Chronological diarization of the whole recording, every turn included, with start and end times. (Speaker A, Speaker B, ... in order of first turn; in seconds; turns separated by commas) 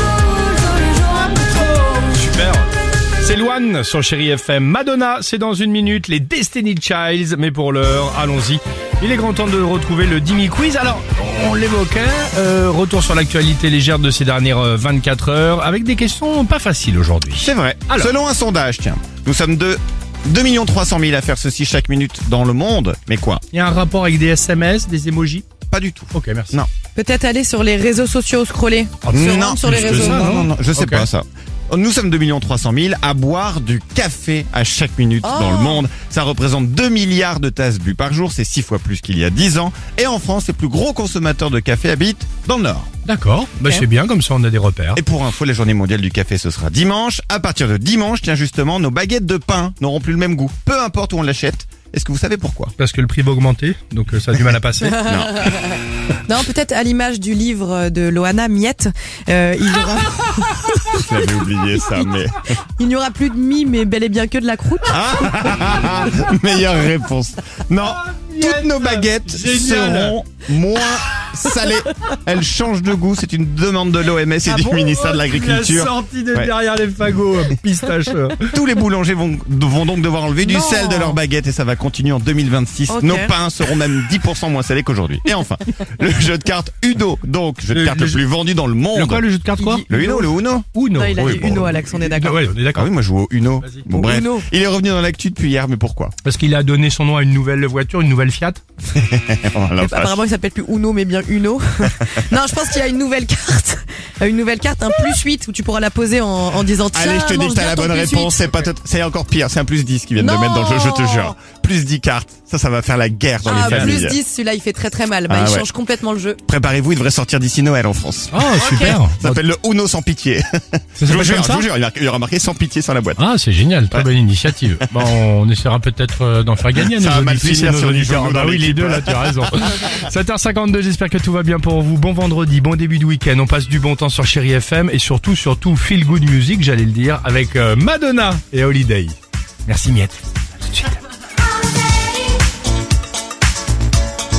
Speaker A: 0.8-2.7, Speaker A: 3.2-18.1, Speaker B: 17.3-23.4, Speaker A: 23.5-25.5, Speaker B: 25.7-26.7, Speaker A: 26.1-26.6, Speaker C: 26.9-30.3, Speaker A: 29.0-31.1, Speaker B: 29.1-42.9, Speaker C: 35.2-35.8, Speaker A: 43.0-45.0, Speaker B: 45.0-52.7, Speaker A: 52.8-55.0, Speaker C: 54.8-61.0, Speaker B: 55.0-55.5, Speaker B: 60.9-62.6, Speaker C: 62.8-65.5, Speaker B: 64.9-76.5, Speaker A: 67.9-70.2, Speaker A: 74.5-78.6, Speaker B: 78.5-89.3, Speaker C: 80.4-81.2, Speaker C: 82.9-83.3, Speaker A: 87.7-88.2, Speaker A: 88.9-90.1, Speaker C: 89.6-90.3, Speaker B: 89.9-91.9, Speaker A: 90.7-92.9, Speaker C: 90.9-92.5, Speaker B: 92.7-96.1, Speaker C: 93.9-94.5, Speaker A: 96.2-98.6, Speaker B: 99.0-100.2, Speaker C: 99.8-108.6, Speaker B: 106.9-114.2, Speaker C: 110.2-111.3, Speaker C: 113.4-116.4, Speaker A: 113.5-114.0, Speaker B: 115.3-115.7, Speaker B: 116.5-123.2, Speaker A: 118.3-119.4, Speaker C: 118.6-119.0, Speaker A: 121.0-121.7, Speaker A: 123.2-139.2, Speaker B: 126.8-129.9, Speaker A: 139.7-141.0